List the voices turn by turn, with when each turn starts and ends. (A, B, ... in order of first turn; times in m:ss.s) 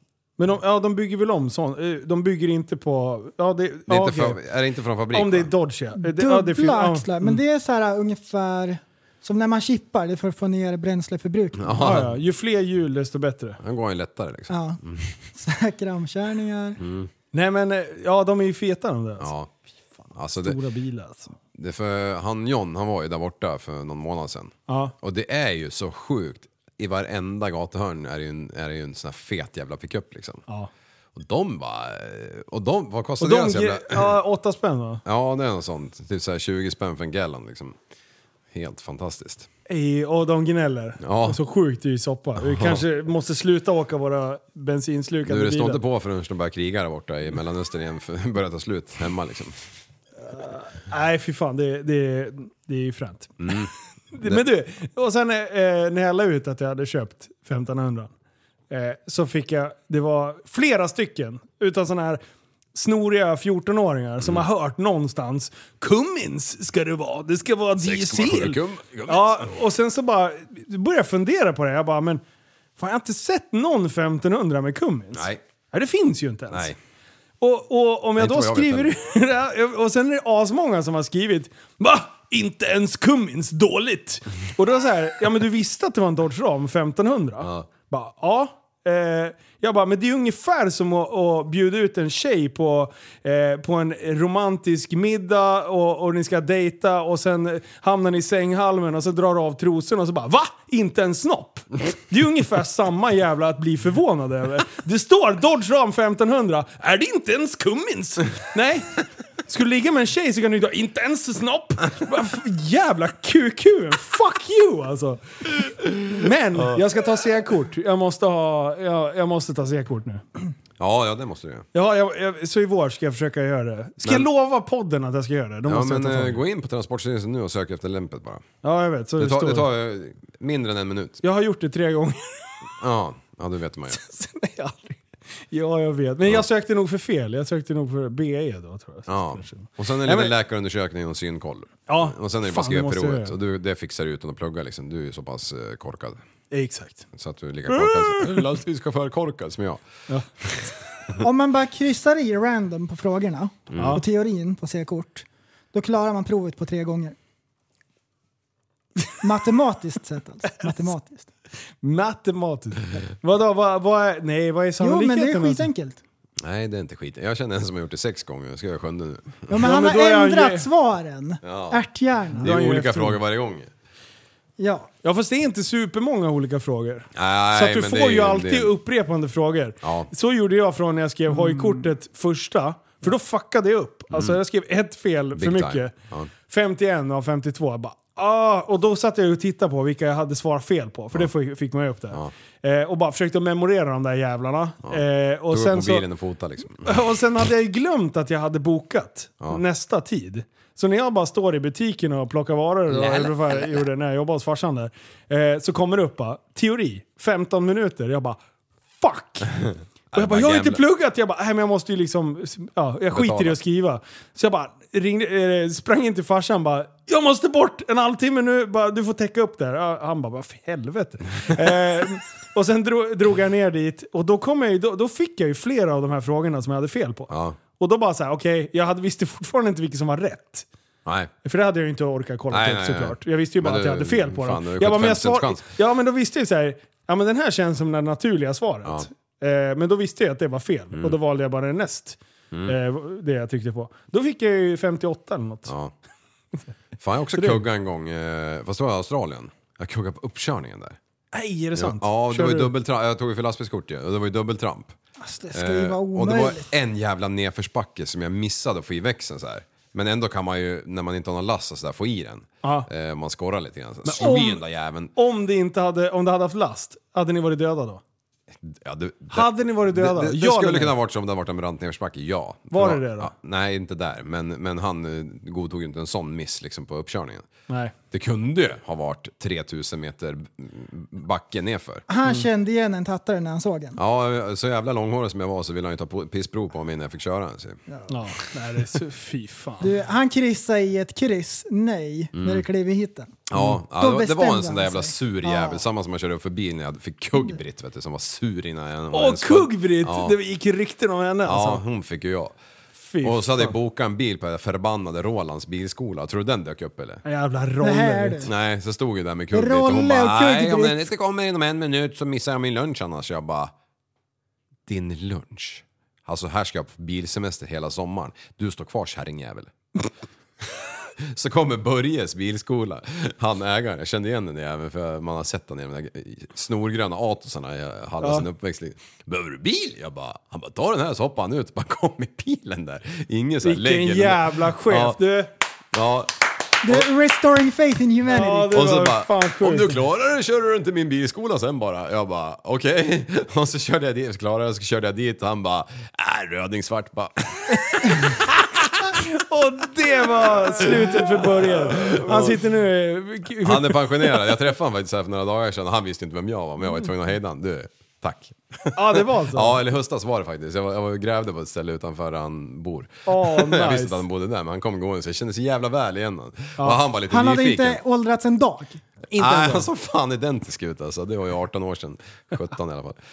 0:00.4-0:04.4 A
0:03.9-0:05.5 B
0:05.1-0:07.4 A
0:06.0-0:12.0 C
0:11.6-0:12.2 B
0:11.8-0:13.6 A
0:13.6-0:15.1 B
0:14.5-0:14.8 C
0:15.3-0:16.8 C
0:16.8-0:17.1 B
0:17.3-0:19.3 A
0:19.2-0:19.5 B
0:20.1-0:20.6 B
0:20.4-0:21.3 A
0:21.6-0:30.4 B
0:24.7-0:24.9 A
0:31.2-0:34.2 B
0:33.2-0:35.0 A
0:35.0-0:37.8 B
0:38.5-0:39.5 B
0:39.7-0:45.8 A
0:41.0-0:41.4 B
0:42.4-0:42.8 B
0:45.2-0:49.6 B
0:50.2-0:58.1 A
0:53.4-0:53.7 B
0:58.7-1:02.2 A
1:02.7-1:12.2 A
1:04.2-1:04.5 B
1:07.8-1:09.5 B
1:12.8-1:16.7 A
1:15.1-1:15.4 B
1:16.5-1:16.8 B
1:17.4-1:55.5 A
1:18.2-1:19.0 B
1:27.4-1:27.7 B
1:56.1-2:00.2 A
2:00.8-2:01.7 B
2:01.7-2:06.4 A
2:04.0-2:04.3 B
2:05.7-2:08.4 B
2:08.6-2:09.7 A
2:09.2-2:11.2 B
2:11.2-2:12.5 A
2:12.8-2:14.0 B
2:13.9-2:20.3 A
2:19.1-2:26.2 B
2:21.9-2:23.3 A
2:26.5-2:27.1 A
2:27.1-2:29.8 B
2:27.7-2:28.5 A
2:30.4-2:30.7 B
2:31.2-2:37.2 C
2:33.7-2:34.0 B
2:33.8-2:34.0 A
2:39.2-2:41.3 C
2:41.8-2:45.7 A
2:44.8-2:46.0 C
2:46.4-2:49.6 B
2:49.5-2:52.5 C
2:49.6-2:50.7 A
2:51.4-2:51.8 B
2:52.4-2:53.2 A
2:52.4-2:53.7 B
2:54.6-2:54.9 C
2:55.0-3:05.9 A
2:57.2-2:58.7 B
2:59.8-3:00.1 B
3:01.3-3:01.9 C
3:04.1-3:04.4 B
3:05.4-3:06.3 B
3:06.5-3:16.0 A
3:14.9-3:17.0 B
3:16.8-3:28.4 A
3:22.9-3:23.9 B
3:29.0-3:29.5 A
3:30.1-3:30.8 B
3:30.2-3:50.7 A
3:33.1-3:33.6 B
3:47.3-3:47.6 B
3:51.0-3:51.3 B
3:51.4-4:05.7 A
3:52.5-3:55.7 B
4:02.5-4:02.8 B
4:05.7-4:05.9 B
4:07.0-4:11.0 B
4:07.4-4:07.6 A
4:11.3-4:12.7 A
4:11.8-4:15.0 B
4:15.2-4:16.7 C
4:15.5-4:25.1 B
4:22.6-4:22.9 A
4:24.0-4:24.6 A
4:25.2-4:28.0 A
4:28.6-4:37.5 B
4:29.3-4:30.9 A
4:32.7-4:33.3 A
4:37.7-4:37.9 A
4:38.1-4:42.0 B
4:42.1-4:44.0 C
4:44.0-4:47.8 B
4:48.1-4:49.9 A
4:49.8-4:55.8 C
4:52.4-4:52.7 B
4:53.5-5:00.4 B
4:59.1-5:01.8 A
5:01.4-5:02.6 B
5:03.0-5:03.7 A
5:03.2-5:07.2 B
5:07.2-5:08.5 A
5:07.8-5:08.5 C
5:08.4-5:13.7 B
5:09.5-5:11.1 C
5:14.9-5:20.0 B
5:21.2-5:35.2 B
5:28.2-5:28.5 A
5:33.6-5:35.5 A
5:35.9-5:36.3 B
5:36.8-5:38.8 C
5:38.3-5:40.0 A
5:38.6-5:49.2 B
5:49.1-5:54.5 A
5:50.4-5:52.7 B
5:53.6-6:08.0 B
5:59.0-5:59.8 A
6:03.3-6:04.2 A
6:07.3-6:09.8 C
6:09.4-6:13.2 B